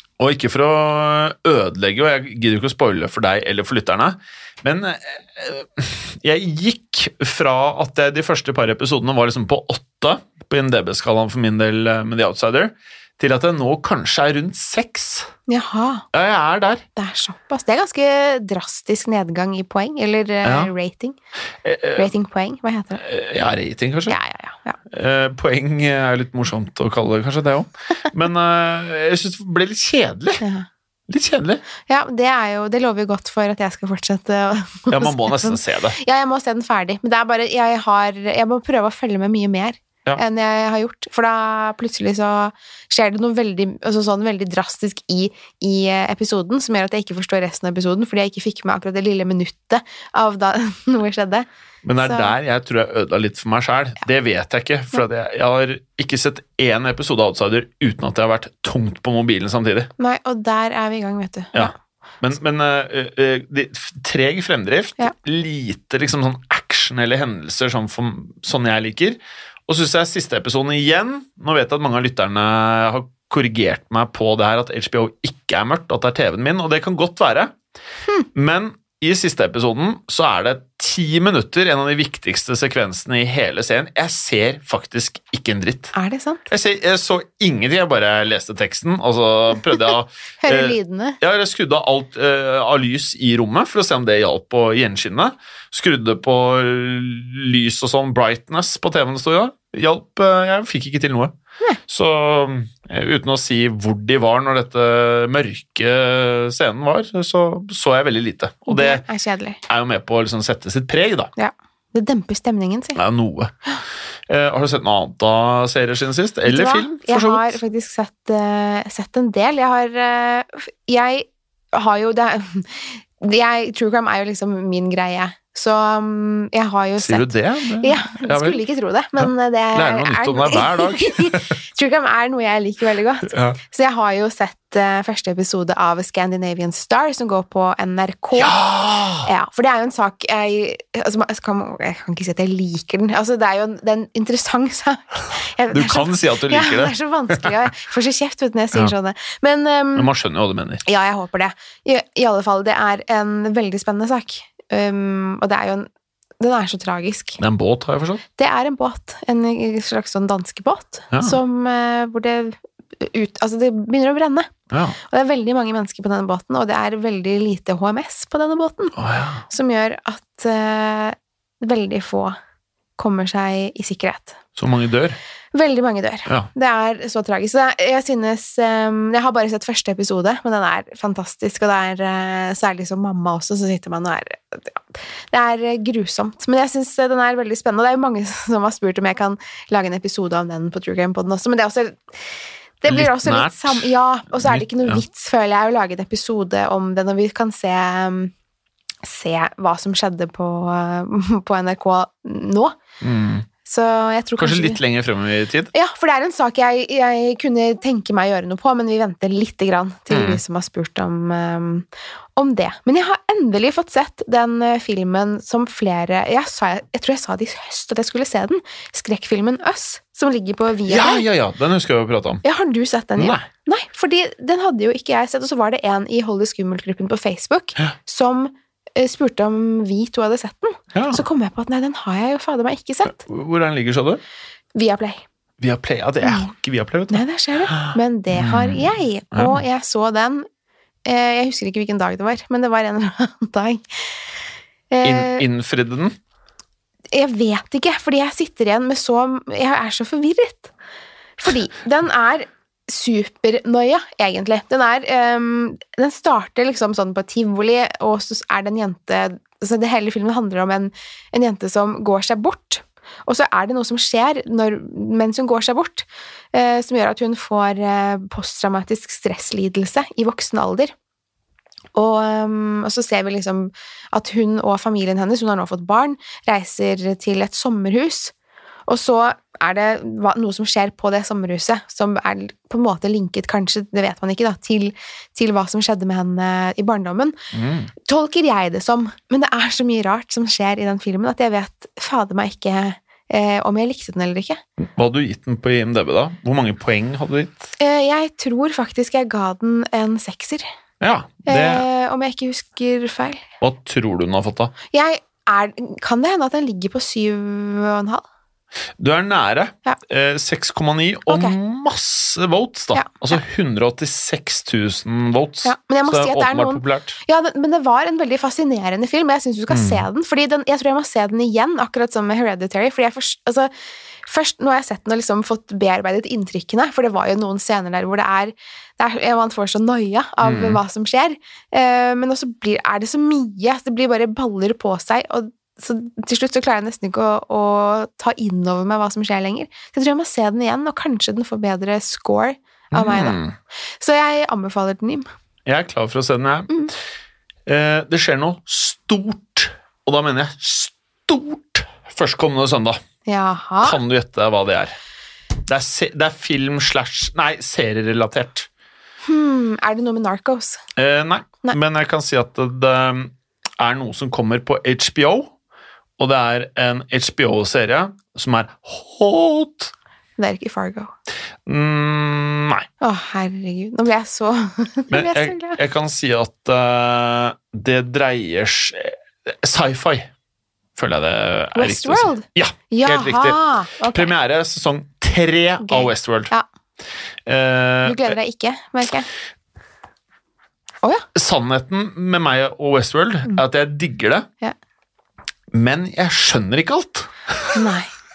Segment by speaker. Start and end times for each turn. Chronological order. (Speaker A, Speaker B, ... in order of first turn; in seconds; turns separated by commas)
Speaker A: 0.2-15.3, Speaker B: 15.5-16.1, Speaker A: 16.1-16.9, Speaker B: 17.0-21.2, Speaker A: 20.4-20.7, Speaker A: 21.6-22.1, Speaker B: 22.0-23.0, Speaker A: 23.0-24.2, Speaker B: 24.1-24.8, Speaker A: 24.9-30.4, Speaker B: 30.4-30.7, Speaker A: 31.1-31.6, Speaker B: 31.9-51.5, Speaker A: 34.9-36.0, Speaker A: 51.8-59.9, Speaker B: 52.0-52.3, Speaker B: 60.0-61.7, Speaker A: 61.5-77.6, Speaker A: 78.3-85.9, Speaker B: 85.9-86.5, Speaker A: 86.5-101.3, Speaker B: 90.4-91.2, Speaker A: 101.9-109.0, Speaker B: 108.7-109.6, Speaker A: 109.7-111.3, Speaker B: 111.4-113.0, Speaker A: 113.0-113.5, Speaker A: 114.3-117.6, Speaker B: 116.5-138.6, Speaker A: 127.0-128.6, Speaker A: 129.2-131.5, Speaker A: 133.3-133.6, Speaker A: 138.3-139.3, Speaker B: 139.2-150.1, Speaker A: 145.7-147.6, Speaker A: 149.9-150.8, Speaker B: 150.8-155.9, Speaker B: 156.4-157.4, Speaker A: 157.4-158.2, Speaker B: 158.4-172.4, Speaker A: 161.1-161.4, Speaker A: 164.7-165.0, Speaker A: 168.9-169.4, Speaker B: 173.0-174.4, Speaker A: 174.6-175.2, Speaker B: 175.5-192.0, Speaker B: 192.8-198.3, Speaker A: 192.9-195.0, Speaker B: 199.0-202.8, Speaker A: 203.0-203.5, Speaker B: 203.6-204.8, Speaker A: 204.4-205.7, Speaker B: 205.7-221.3, Speaker A: 210.1-210.4, Speaker A: 220.9-222.4, Speaker B: 222.4-233.2, Speaker A: 223.2-223.5, Speaker A: 230.9-231.2, Speaker A: 233.1-234.2, Speaker B: 234.8-235.2, Speaker A: 235.6-239.6, Speaker B: 236.2-236.5, Speaker B: 237.1-240.5, Speaker B: 241.1-244.1, Speaker B: 244.9-245.4, Speaker A: 245.0-246.2, Speaker B: 247.1-250.7, Speaker B: 251.4-270.9, Speaker B: 271.9-278.3, Speaker B: 278.9-287.3, Speaker A: 287.5-287.9, Speaker B: 288.1-294.6, Speaker A: 294.8-297.7, Speaker B: 297.8-300.7, Speaker A: 301.0-301.9, Speaker B: 301.5-303.5, Speaker A: 303.6-304.7, Speaker B: 304.9-308.2, Speaker A: 309.0-317.2, Speaker B: 311.3-311.6, Speaker B: 312.9-313.4, Speaker B: 315.6-323.7, Speaker A: 319.7-320.1, Speaker B: 324.3-343.4, Speaker A: 330.4-330.8, Speaker A: 342.9-343.6, Speaker B: 344.0-345.3, Speaker A: 345.7-346.8, Speaker A: 347.7-353.0, Speaker B: 353.3-354.0, Speaker A: 353.8-354.9, Speaker A: 355.7-358.7, Speaker B: 359.2-360.8, Speaker A: 361.0-365.5, Speaker A: 366.2-369.9, Speaker B: 370.4-371.1, Speaker A: 371.7-372.9, Speaker B: 373.0-375.8, Speaker A: 375.1-380.3, Speaker A: 381.0-386.5, Speaker B: 381.8-384.3, Speaker B: 385.8-386.6, Speaker A: 387.5-388.4, Speaker B: 388.0-389.3, Speaker A: 391.4-394.5, Speaker A: 395.7-397.9, Speaker B: 397.7-398.1